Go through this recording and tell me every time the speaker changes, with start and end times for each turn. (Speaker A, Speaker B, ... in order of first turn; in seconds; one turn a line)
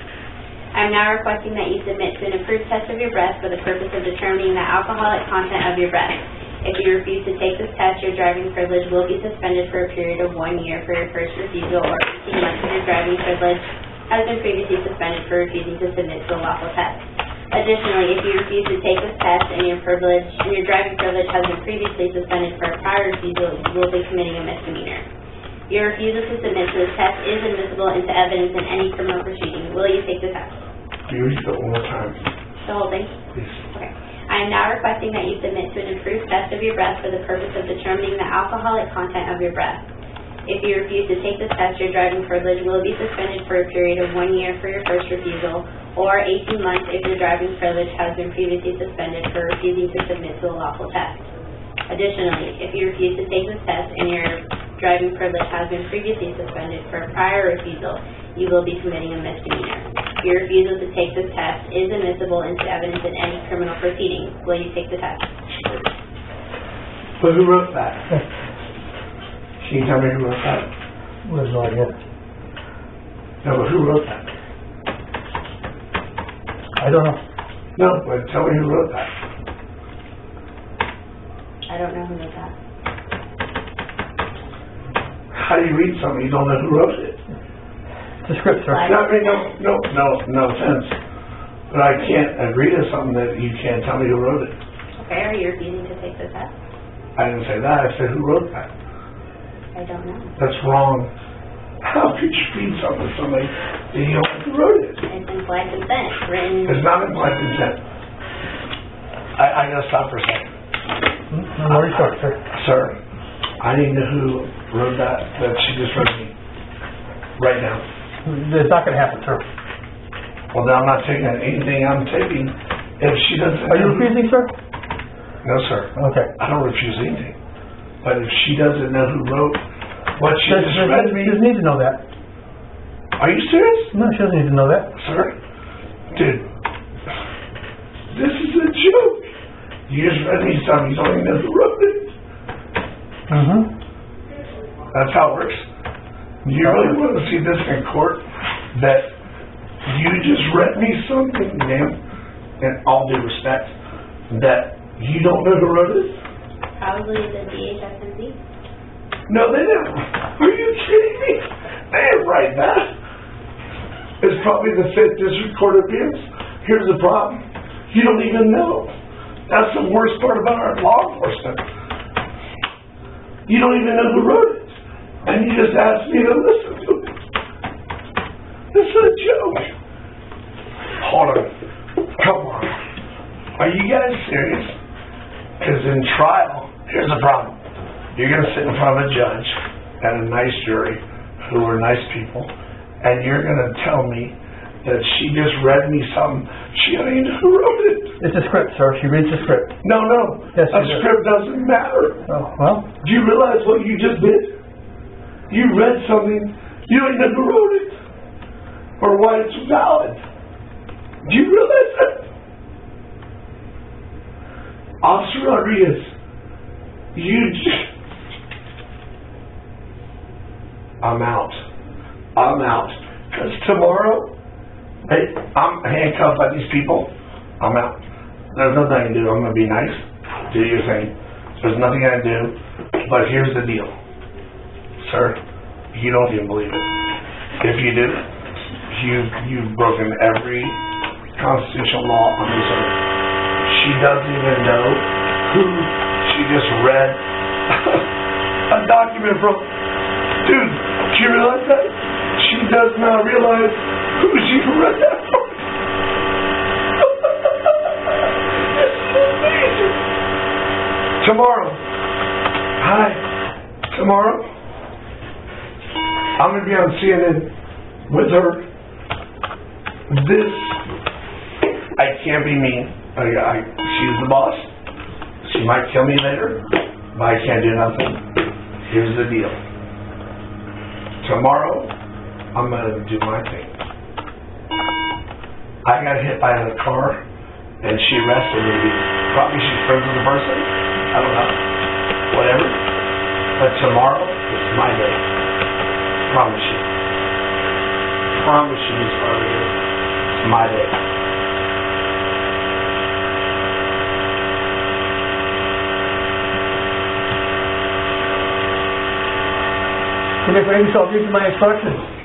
Speaker A: 0.7-25.1
Speaker A: 25.7-30.6
Speaker B: 31.1-32.2
Speaker A: 32.6-33.2
Speaker B: 33.3-33.6
Speaker A: 33.7-39.9
Speaker A: 40.5-51.3
Speaker A: 51.9-65.3
Speaker B: 65.5-65.9
Speaker B: 67.2-68.0
Speaker B: 69.6-70.7
Speaker C: 71.2-72.0
Speaker B: 73.4-74.3
Speaker C: 76.8-77.2
Speaker B: 77.8-79.1
Speaker A: 81.7-82.5
Speaker B: 85.3-87.2
Speaker C: 88.2-88.9
Speaker A: 88.7-89.5
Speaker B: 88.8-91.0
Speaker B: 91.7-94.6
Speaker A: 95.0-96.5
Speaker B: 97.2-98.7
Speaker A: 99.7-100.3
Speaker B: 100.4-101.1
Speaker B: 101.8-105.0
Speaker A: 105.0-106.9
Speaker B: 106.6-107.8
Speaker B: 109.4-110.5
Speaker C: 111.3-112.4
Speaker B: 111.7-113.0
Speaker B: 113.6-116.3
Speaker B: 117.4-117.8
Speaker C: 118.2-119.4
Speaker B: 120.5-124.1
Speaker C: 123.7-124.5
Speaker B: 125.4-127.4
Speaker C: 126.0-126.3
Speaker B: 128.0-129.6
Speaker B: 130.2-131.4
Speaker C: 130.4-132.0
Speaker B: 133.2-133.9
Speaker C: 133.9-134.9
Speaker B: 134.9-135.3
Speaker B: 136.1-136.5
Speaker B: 138.1-139.3
Speaker B: 139.9-142.1
Speaker C: 143.3-143.7
Speaker B: 144.9-145.7
Speaker B: 146.4-148.2
Speaker C: 146.6-147.0
Speaker B: 148.7-149.1
Speaker B: 149.9-152.0
Speaker B: 152.6-153.7
Speaker B: 154.3-156.2
Speaker A: 156.8-158.4
Speaker B: 159.3-162.9
Speaker B: 164.2-168.9
Speaker B: 169.5-171.6
Speaker B: 173.5-177.1
Speaker B: 178.7-179.7
Speaker B: 181.0-181.5
Speaker B: 182.2-182.8
Speaker B: 183.6-184.8
Speaker B: 185.6-187.6
Speaker B: 188.1-198.1
Speaker C: 198.2-199.7
Speaker B: 199.8-202.2
Speaker C: 200.5-201.1
Speaker C: 202.3-202.9
Speaker B: 203.0-204.6
Speaker B: 205.5-208.0
Speaker B: 209.0-210.2
Speaker B: 211.2-212.3
Speaker B: 215.0-216.1
Speaker B: 217.1-217.9
Speaker B: 221.0-221.6
Speaker B: 222.3-224.3
Speaker B: 225.1-233.9
Speaker B: 235.0-235.4
Speaker B: 235.9-236.9
Speaker B: 237.6-238.2
Speaker B: 238.9-240.8
Speaker B: 241.4-242.9
Speaker B: 243.7-248.1
Speaker B: 248.7-249.7
Speaker B: 250.4-255.6
Speaker B: 257.0-257.7
Speaker B: 258.5-260.0
Speaker B: 261.2-261.8
Speaker B: 262.8-263.2
Speaker B: 263.9-264.5
Speaker B: 266.4-267.5
Speaker B: 268.1-268.7
Speaker B: 270.1-270.8
Speaker B: 271.9-274.7
Speaker B: 275.4-278.2
Speaker B: 278.8-279.6
Speaker B: 281.2-281.9
Speaker B: 282.5-283.8
Speaker B: 285.8-287.2
Speaker B: 287.8-291.6
Speaker B: 292.3-292.8
Speaker B: 293.6-295.2
Speaker B: 296.2-296.9
Speaker B: 298.3-299.8
Speaker B: 300.3-301.0
Speaker C: 310.4-312.1